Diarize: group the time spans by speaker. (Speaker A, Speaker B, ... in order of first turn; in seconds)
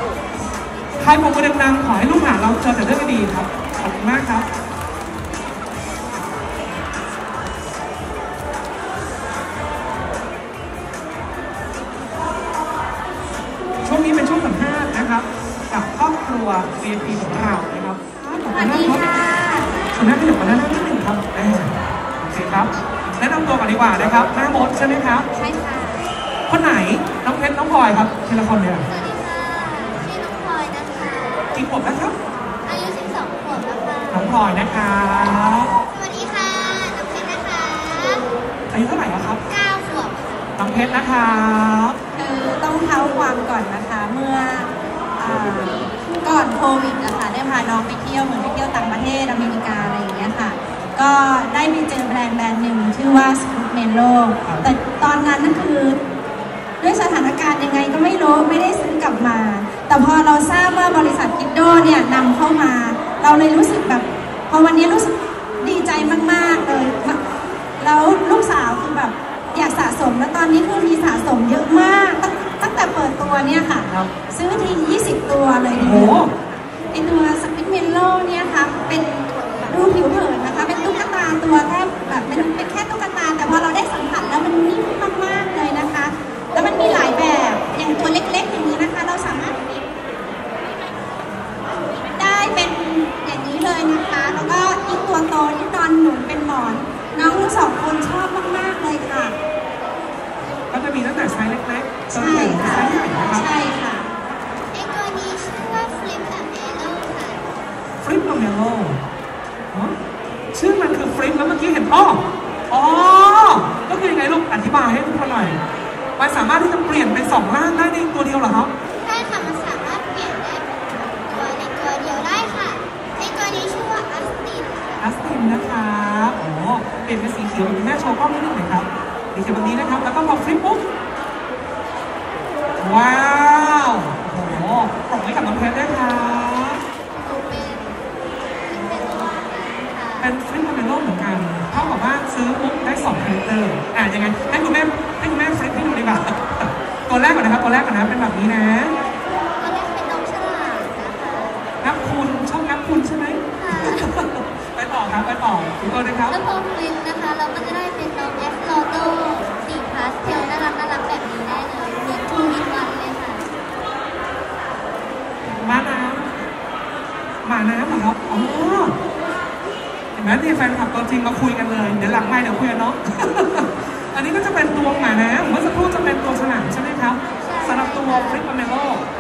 Speaker A: 1.0-4.5, 13.8-19.2, 19.9-25.3, 26.5-28.9, 31.5-32.1, 34.1-35.7, 38.7-39.4, 40.6-42.0, 75.7-76.3, 100.7-103.5, 108.0-109.0, 110.5-115.6, 116.2-118.7, 125.0-130.8, 132.8-136.8, 140.2-148.9, 151.8-156.4, 165.4-166.3, 167.4-168.9, 170.1-179.0
Speaker B: 18.1-19.7, 25.4-26.0, 42.1-56.0, 56.8-67.2, 67.8-76.2, 76.9-89.8, 92.1-99.3, 102.1-104.1
Speaker C: 28.9-31.7, 32.6-34.3, 35.9-38.3, 39.5-40.5, 104.7-107.5, 119.0-125.1, 137.1-138.0, 138.7-140.3, 141.7-142.0, 149.6-151.6, 153.6-154.1, 156.3-163.5, 177.4-178.4